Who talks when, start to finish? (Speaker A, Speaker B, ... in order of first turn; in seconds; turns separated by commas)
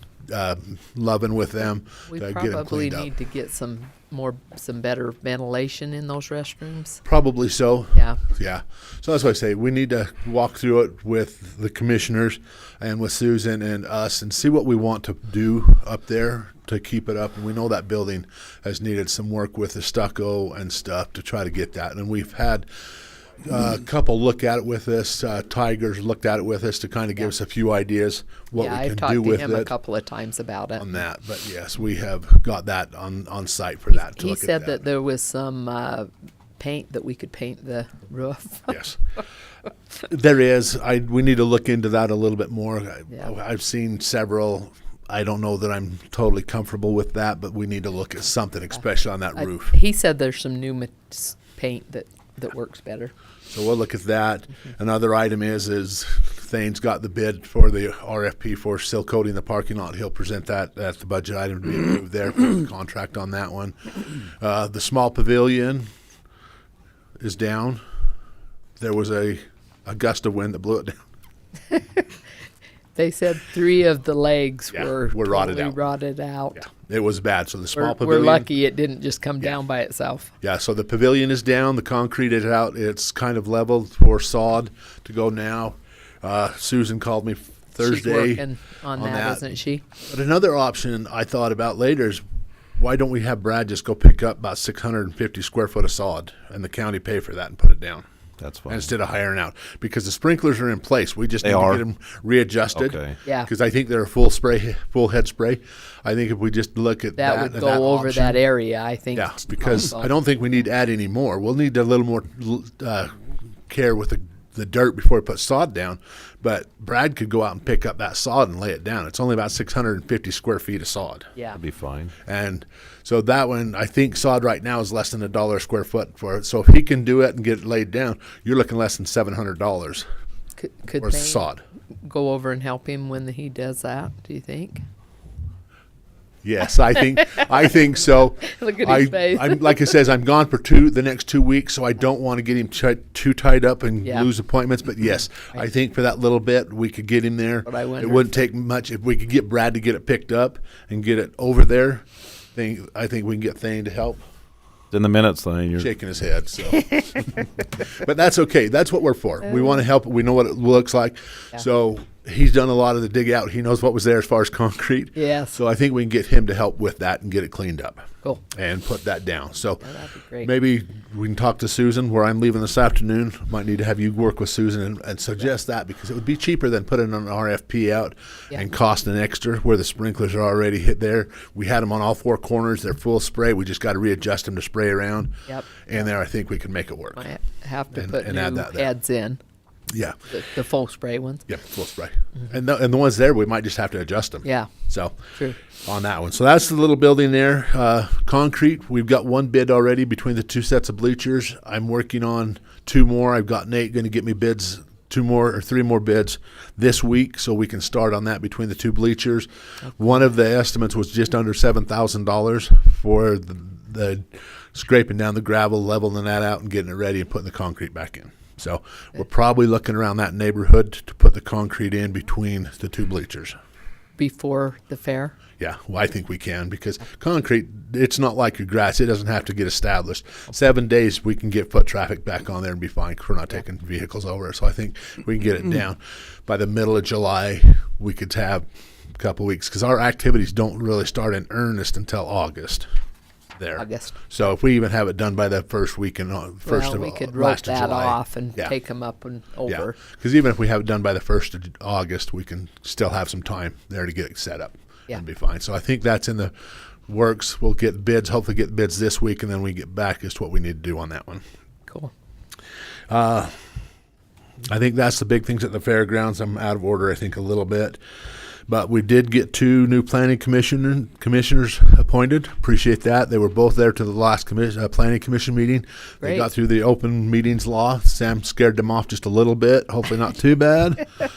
Speaker A: 0.3-3.1, Speaker B: 2.1-7.0, Speaker A: 7.0-22.7, Speaker A: 23.4-29.7, Speaker B: 28.6-30.9, Speaker A: 30.8-34.9, Speaker B: 33.9-38.8, Speaker A: 38.7-39.0, Speaker A: 39.9-49.8, Speaker B: 49.4-53.1, Speaker A: 53.5-65.8, Speaker A: 67.2-67.8, Speaker A: 68.8-71.0, Speaker B: 71.7-72.0, Speaker B: 73.0-76.6, Speaker A: 74.7-75.8, Speaker A: 76.5-78.5, Speaker B: 77.7-80.3, Speaker A: 80.4-92.2, Speaker B: 87.8-89.8, Speaker A: 92.8-98.0, Speaker C: 98.4-98.9, Speaker A: 98.7-108.4, Speaker C: 101.4-101.8, Speaker C: 102.8-103.2, Speaker B: 107.2-110.1, Speaker A: 109.1-121.3, Speaker C: 121.5-122.1, Speaker A: 122.2-130.1, Speaker B: 130.6-131.4, Speaker A: 131.0-131.6, Speaker B: 132.0-134.8, Speaker A: 136.4-154.2, Speaker B: 138.4-139.9, Speaker B: 144.0-144.3, Speaker B: 147.7-148.4, Speaker C: 154.9-155.9, Speaker A: 155.8-169.9, Speaker B: 165.1-165.6, Speaker B: 169.8-170.5, Speaker A: 170.4-187.3, Speaker B: 185.5-185.8, Speaker B: 187.2-189.4, Speaker A: 187.9-188.9, Speaker A: 189.9-190.3, Speaker B: 190.3-191.4, Speaker A: 191.5-223.5, Speaker B: 194.4-194.7, Speaker B: 224.2-225.3, Speaker A: 225.6-242.9, Speaker A: 243.6-248.7, Speaker B: 243.8-244.2, Speaker B: 246.6-250.0, Speaker A: 249.7-256.5, Speaker A: 257.1-261.4, Speaker A: 263.1-263.6, Speaker A: 264.7-268.0, Speaker A: 268.7-281.2, Speaker B: 276.2-276.5